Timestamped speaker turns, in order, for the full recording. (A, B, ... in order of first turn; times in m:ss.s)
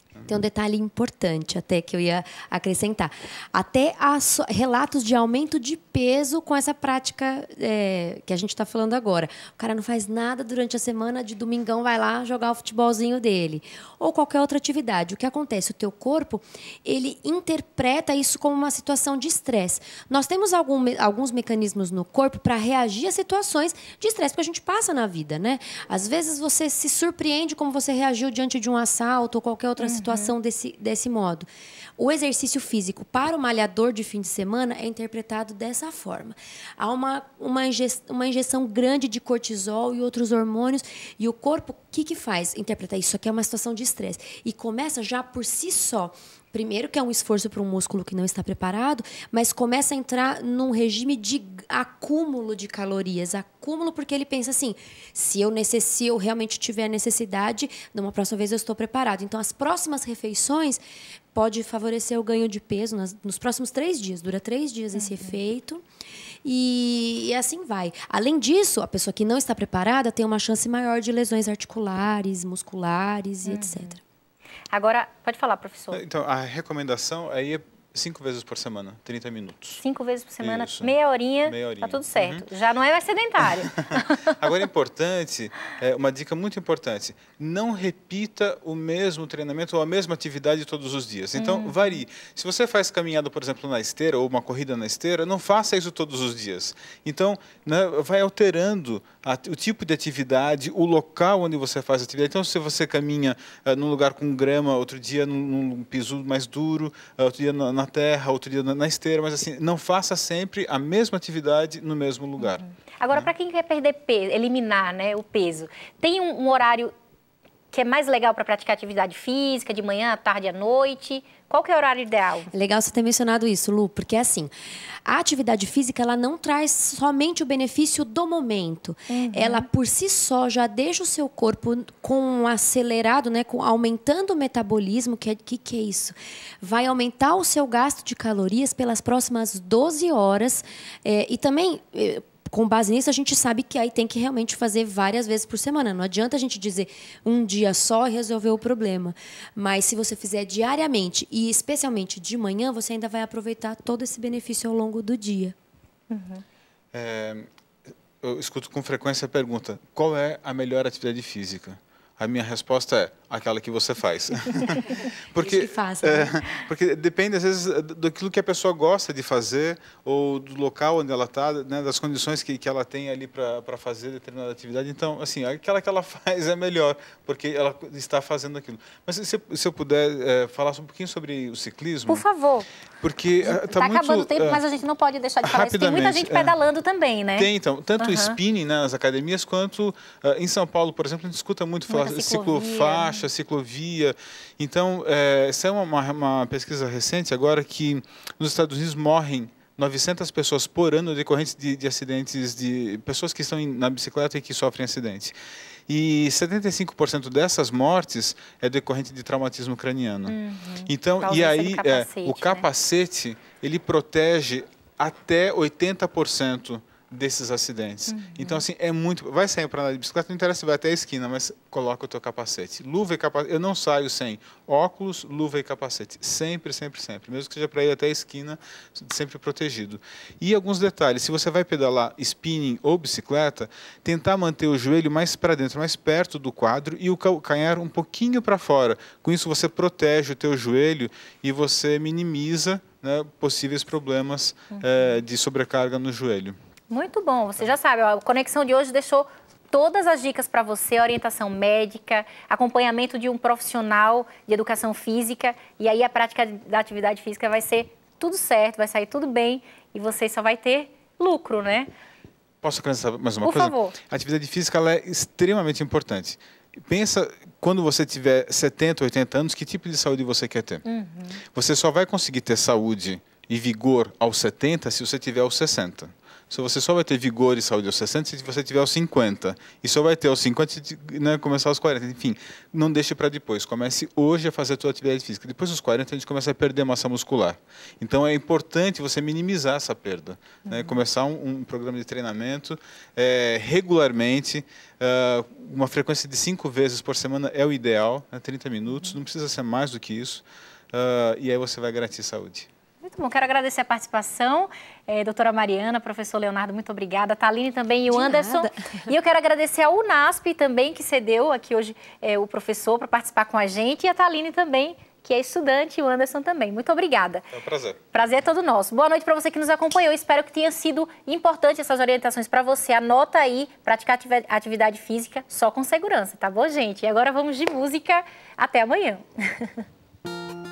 0:00.3-0:31.5 A
0:29.8-0:30.3 B
0:32.0-1:00.8 A
1:01.3-1:05.8 A
1:04.9-1:05.4 B
1:06.4-1:14.0 A
1:13.5-1:13.9 B
1:14.7-1:16.0 B
1:15.9-1:19.8 C
1:19.8-1:24.3 B
1:20.4-1:22.4 C
1:23.7-1:53.3 C
1:31.3-1:32.0 B
1:52.4-1:56.9 B
1:57.7-2:02.5 B
2:02.5-2:04.5 A
2:05.0-2:35.5 A
2:09.1-2:09.7 B
2:36.1-2:36.4 B
2:36.9-2:37.5 C
2:38.2-3:02.2 C
2:45.4-2:46.4 A
3:02.1-3:02.6 B
3:03.0-3:04.6 C
3:03.4-3:08.4 B
3:05.4-3:06.6 C
3:07.3-3:25.3 C
3:11.9-3:13.3 B
3:25.9-3:30.4 C
3:30.2-3:32.7 B
3:30.9-4:06.6 C
3:38.1-3:38.6 B
4:04.7-4:05.1 B
4:06.9-4:21.9 B
4:22.6-4:30.8 C
4:23.4-4:24.0 B
4:30.8-4:31.4 B
4:31.5-5:02.7 C
4:50.7-4:51.0 B
5:03.0-5:17.4 B
5:08.1-5:09.0 A
5:17.5-5:18.0 C
5:18.1-5:29.8 B